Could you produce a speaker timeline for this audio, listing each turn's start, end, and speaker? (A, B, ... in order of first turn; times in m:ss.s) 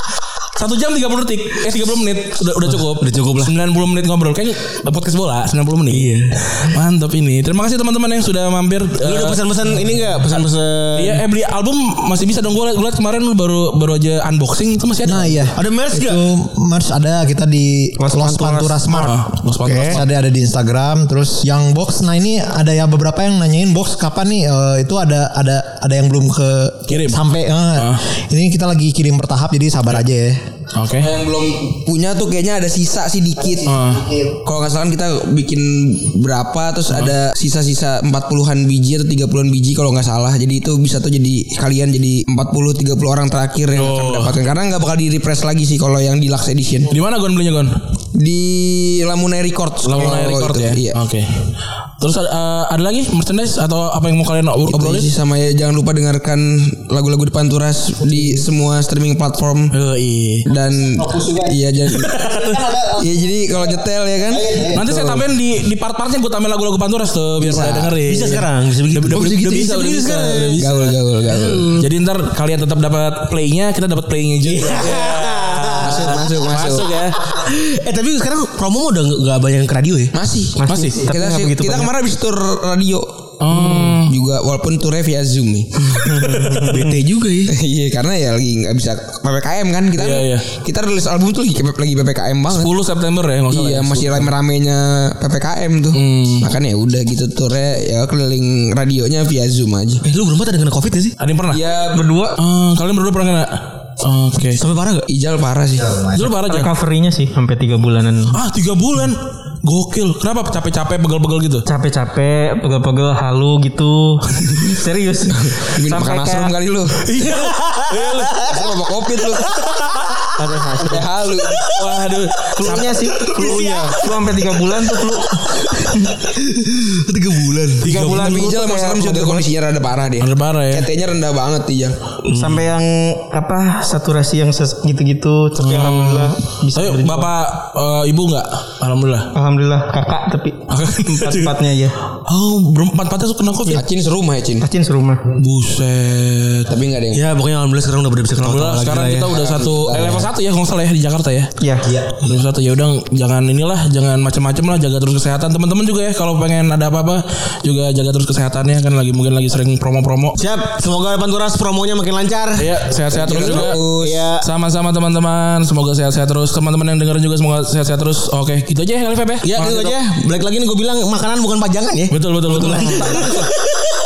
0:00.6-0:09.5 A
0:02.7-0:03.5 B
0:05.9-0:06.7 B
0:09.0-0:11.2 B
0:10.2-0:15.5 A
0:15.0-0:30.4 C
0:15.6-0:16.2 B
0:18.0-0:18.8 D
0:18.9-0:20.0 A
0:19.7-0:20.0 B
0:26.9-0:27.2 A
0:27.8-0:28.0 A
0:30.7-0:31.1 A
0:31.0-0:46.9 E
0:33.6-0:34.1 A
0:43.7-0:44.4 A
0:46.9-0:47.8 A
0:48.1-0:51.0 E
0:49.8-0:51.5 A
0:52.0-0:55.1 A
0:54.7-0:59.7 E
0:59.7-1:00.5 A
1:00.5-1:02.4 E
1:01.0-1:01.6 C
1:02.2-1:05.2 C
1:02.9-1:04.6 E
1:04.7-1:11.0 A
1:07.5-1:10.6 B
1:10.6-1:11.8 E
1:11.3-1:11.7 B
1:11.8-1:17.2 A
1:14.5-1:16.1 B
1:15.8-1:17.0 E
1:17.2-1:20.1 B
1:20.1-1:26.9 E
1:20.6-1:21.9 D
1:20.7-1:21.0 A
1:23.4-1:24.1 A
1:26.0-1:26.4 D
1:26.3-1:27.5 B
1:27.5-1:32.7 E
1:30.0-1:30.5 A
1:32.5-1:34.3 A
1:33.5-1:40.0 E
1:35.9-1:36.5 A
1:40.0-1:41.2 B
1:41.2-1:41.6 A
1:41.5-1:42.4 E
1:42.0-1:42.3 D
1:42.4-1:44.6 A
1:44.6-1:45.1 B
1:45.1-1:46.1 E
1:46.1-1:46.7 A
1:46.4-1:48.4 D
1:48.3-1:51.6 A
1:51.7-1:56.6 D
1:55.3-1:57.1 E
1:57.0-1:58.4 A
1:57.3-1:58.1 B
1:58.4-1:59.5 E
2:00.4-2:01.1 D
2:00.8-2:01.7 E
2:01.7-2:04.0 A
2:02.6-2:05.4 D
2:05.6-2:08.1 B
2:07.8-2:09.5 D
2:07.8-2:08.4 A
2:07.8-2:12.0 E
2:10.2-2:10.9 A
2:12.3-2:12.7 B
2:12.3-2:17.3 D
2:15.6-2:19.3 A
2:19.3-2:22.0 D
2:20.7-2:21.6 A
2:22.3-2:23.8 A
2:23.7-2:24.7 E
2:24.6-2:25.2 D
2:25.4-2:26.7 A
2:26.7-2:27.3 E
2:27.1-2:29.3 B
2:28.4-2:31.5 A
2:29.2-2:30.3 E
2:31.6-2:31.8 D
2:31.9-2:32.3 B
2:32.2-2:40.4 A
2:40.4-2:42.8 B
2:42.6-2:43.8 A
2:43.1-2:44.3 E
2:43.4-2:44.4 B
2:44.4-2:50.0 A
2:49.5-2:53.9 B
2:52.1-2:53.4 A
2:52.7-2:53.5 E